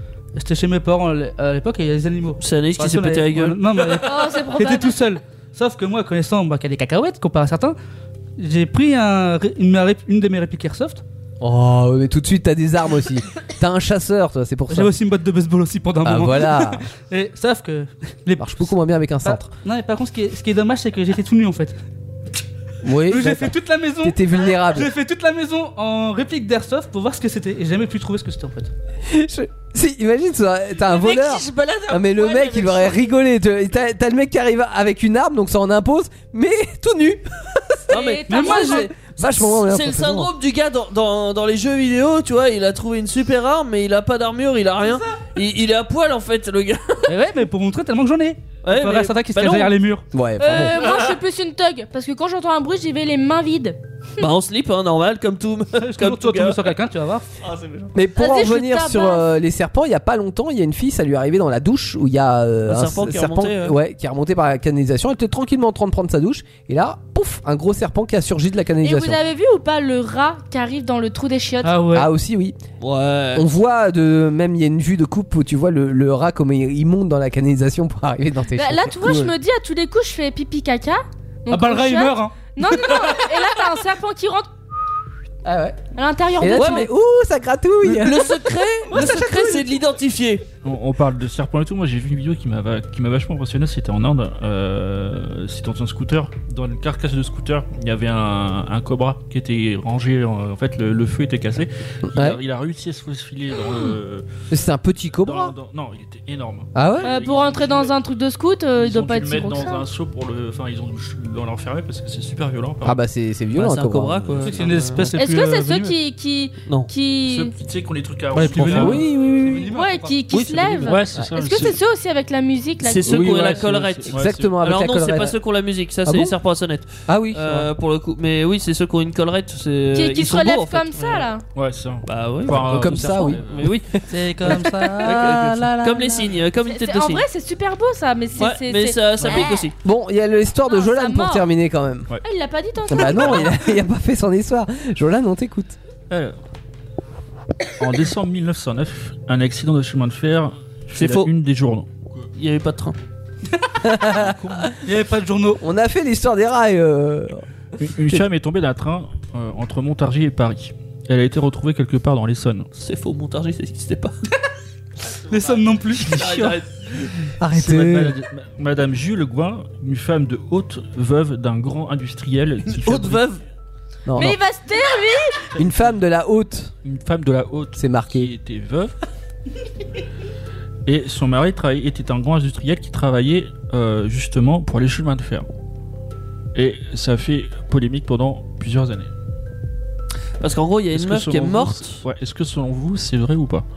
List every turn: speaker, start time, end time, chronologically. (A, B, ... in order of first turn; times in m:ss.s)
0:00.4-0:07.8 A
0:02.4-0:04.0 B
0:04.0-0:05.0 C
0:08.4-0:11.0 A
0:11.4-0:14.9 D
0:14.7-0:18.6 A
0:16.0-0:16.8 D
0:18.4-0:19.5 D
0:19.2-0:21.8 A
0:22.8-0:24.9 D
0:23.0-0:28.7 A
0:29.1-0:37.9 D
0:30.9-0:33.0 B
0:37.9-0:38.9 C
0:37.9-0:47.2 B
0:38.3-0:38.9 A
0:39.0-0:40.3 D
0:47.1-0:50.0 A
0:48.6-0:49.8 B
0:50.1-0:50.8 D
0:50.4-0:53.8 C
0:50.6-0:51.2 B
0:54.2-0:56.8 B
0:55.8-0:57.3 A
0:57.4-0:57.9 B
0:57.9-1:09.2 D
0:58.2-0:59.3 C
1:02.7-1:03.8 B
1:08.8-1:11.7 C
1:11.6-1:12.1 A
1:11.9-1:12.6 D
1:12.8-1:13.5 B
1:13.4-1:19.3 D
1:18.5-1:24.5 C
1:21.5-1:22.4 A
1:25.4-1:25.8 D
1:26.0-1:26.9 C
1:26.4-1:29.7 D
1:26.6-1:26.9 B
1:27.8-1:30.4 B
1:30.6-1:44.3 E
1:42.1-1:42.4 D
1:44.5-1:45.5 D
1:45.2-1:48.0 E
1:46.8-1:47.1 D
1:47.0-1:49.8 C
1:48.8-1:53.0 E
1:52.8-1:54.5 D
1:53.6-1:55.1 B
1:54.4-1:56.0 A
1:55.2-1:57.5 C
1:57.2-1:59.1 E
1:58.3-2:00.2 A
1:58.6-1:59.7 D
1:59.7-2:03.2 C
2:00.3-2:01.8 E
2:02.8-2:11.3 B
2:03.1-2:04.6 E
2:03.1-2:05.4 D
2:06.1-2:06.4 D
2:07.1-2:07.6 D
2:09.9-2:11.4 C
2:11.6-2:13.7 E
2:12.0-2:13.9 B
2:12.5-2:16.1 D
2:14.1-2:16.0 A
2:15.0-2:17.2 B
2:16.7-2:19.7 C
2:18.4-2:19.8 B
2:19.8-2:22.1 D
2:20.7-2:21.5 C
2:22.2-2:23.5 C
2:22.9-2:25.8 D
2:26.1-2:26.4 E
2:27.8-2:32.3 E
2:30.9-2:31.3 B
2:32.4-2:33.0 B
2:33.9-2:34.3 D
2:34.2-2:34.7 E
2:34.7-2:35.6 A
2:35.6-2:38.2 D
2:37.8-2:42.7 E
2:42.8-2:44.1 B
2:45.3-2:46.6 A
2:45.4-2:46.8 B
2:47.4-2:48.2 D
2:47.5-2:53.2 E
2:52.7-2:53.4 B
2:54.1-2:54.4 D
2:54.2-2:55.4 C
2:55.6-2:56.7 D
2:56.8-2:58.9 E
2:57.8-2:58.3 D
3:00.9-3:05.5 E
3:06.6-3:09.1 E
3:10.4-3:12.0 B
3:10.9-3:13.7 E